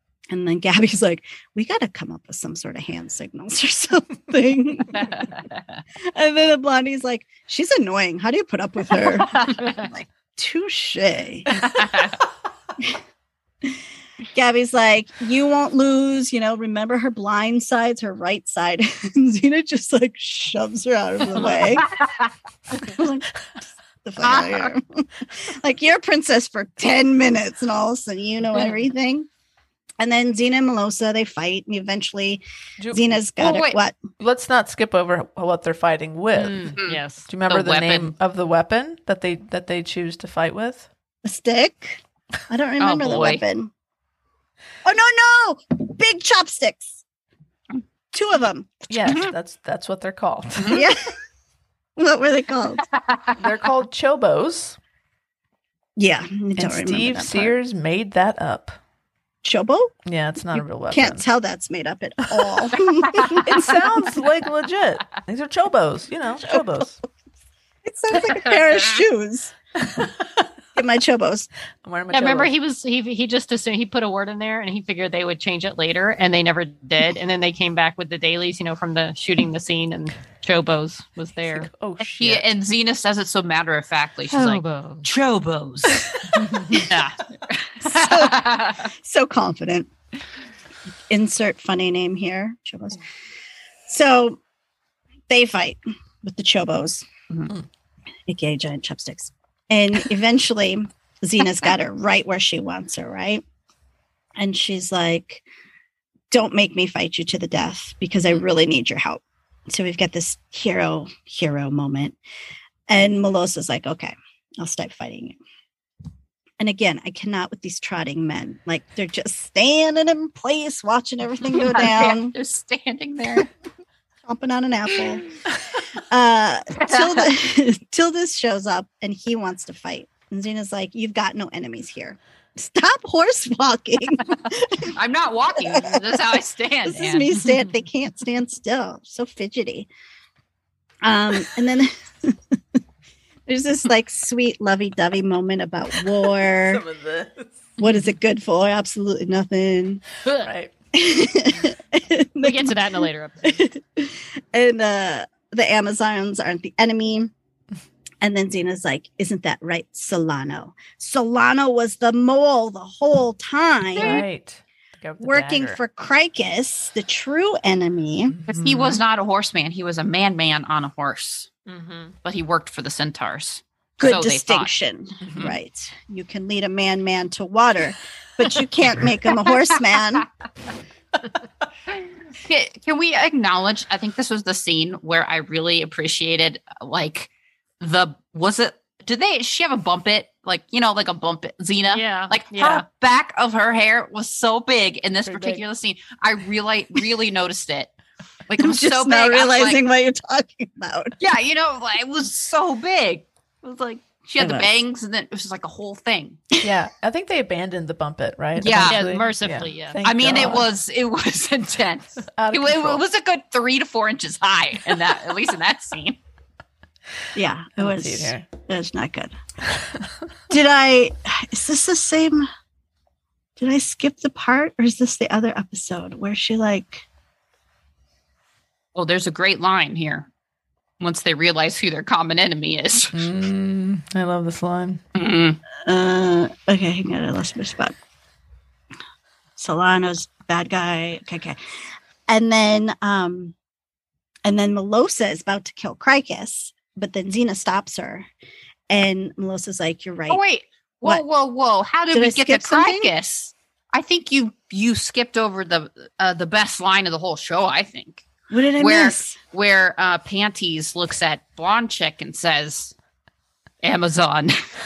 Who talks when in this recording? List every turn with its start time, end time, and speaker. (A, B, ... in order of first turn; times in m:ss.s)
0:00.3-0:05.3 A
0:06.1-0:11.6 A
0:11.6-0:11.9 B
0:14.3-0:22.0 A
0:21.8-0:22.2 B
0:22.8-0:23.3 A
0:24.0-0:29.3 A
0:24.2-0:24.7 B
0:30.0-0:34.0 A
0:32.8-0:33.6 C
0:33.4-0:33.8 B
0:34.2-0:40.9 C
0:36.4-0:37.3 D
0:36.8-0:38.1 B
0:41.2-0:43.7 A
0:42.8-0:43.4 B
0:44.8-0:47.0 A
0:48.1-0:49.3 A
0:48.9-0:50.8 C
0:50.6-0:50.8 B
0:50.7-0:51.0 A
0:52.0-0:52.8 A
0:52.9-0:53.4 B
0:53.4-0:54.8 C
0:56.0-0:57.6 A
0:56.6-0:58.8 C
0:59.4-1:00.0 A
1:00.1-1:01.2 C
1:00.5-1:03.9 A
1:03.1-1:03.4 B
1:03.4-1:07.0 C
1:06.4-1:06.9 A
1:07.8-1:09.5 A
1:10.8-1:11.5 A
1:11.8-1:12.5 C
1:12.1-1:21.7 D
1:21.6-1:22.5 C
1:22.2-1:28.9 B
1:24.3-1:25.1 D
1:27.8-1:29.9 A
1:31.1-1:33.0 A
1:33.9-1:34.4 A
1:35.3-1:37.1 A
1:38.3-1:43.4 A
1:44.4-1:45.4 A
1:46.3-1:52.2 A
1:52.9-1:55.4 A
1:56.6-2:02.3 A
2:01.5-2:03.5 B
2:04.2-2:05.2 A
2:06.0-2:15.0 A
2:06.8-2:07.3 B
2:15.0-2:17.4 B
2:15.6-2:19.9 A
2:21.0-2:22.4 A
2:23.5-2:26.8 A
2:26.5-2:27.6 C
2:27.8-2:30.0 A
2:30.4-2:30.7 C
2:30.9-2:32.9 A
2:32.4-2:33.7 D
2:33.6-2:37.3 A
2:38.2-2:44.2 A
2:44.0-2:44.2 D
2:44.0-2:45.8 C
2:45.2-2:48.4 A
2:48.3-2:49.0 C
2:48.5-2:51.5 B
2:51.7-2:52.1 D
2:52.2-2:54.7 B
2:54.0-3:00.3 A
2:55.2-2:55.5 C
2:55.3-2:55.5 B
2:59.4-3:00.0 B
3:02.4-3:17.9 B
3:11.9-3:12.8 D
3:15.3-3:15.6 C
3:18.5-3:19.8 B
3:18.6-3:21.1 A
3:21.2-3:26.4 B
3:24.4-3:24.7 A
3:26.6-3:30.7 C
3:28.6-3:29.2 B
3:28.9-3:30.4 D
3:30.0-3:36.2 B
3:32.3-3:33.0 C
3:37.4-3:39.4 A
3:37.8-3:38.5 C
3:40.5-3:42.5 A
3:43.6-3:47.0 A
3:49.0-3:50.3 B
3:51.0-3:53.3 B
3:53.1-3:55.0 C
3:55.2-3:55.6 B
3:55.9-3:58.0 A
3:59.6-4:01.6 A
4:02.3-4:03.5 A
4:04.4-4:08.3 A
4:08.9-4:10.4 A
4:10.3-4:18.3 B
4:12.1-4:13.1 A
4:18.5-4:19.4 A
4:18.8-4:23.0 B
4:23.8-4:24.6 B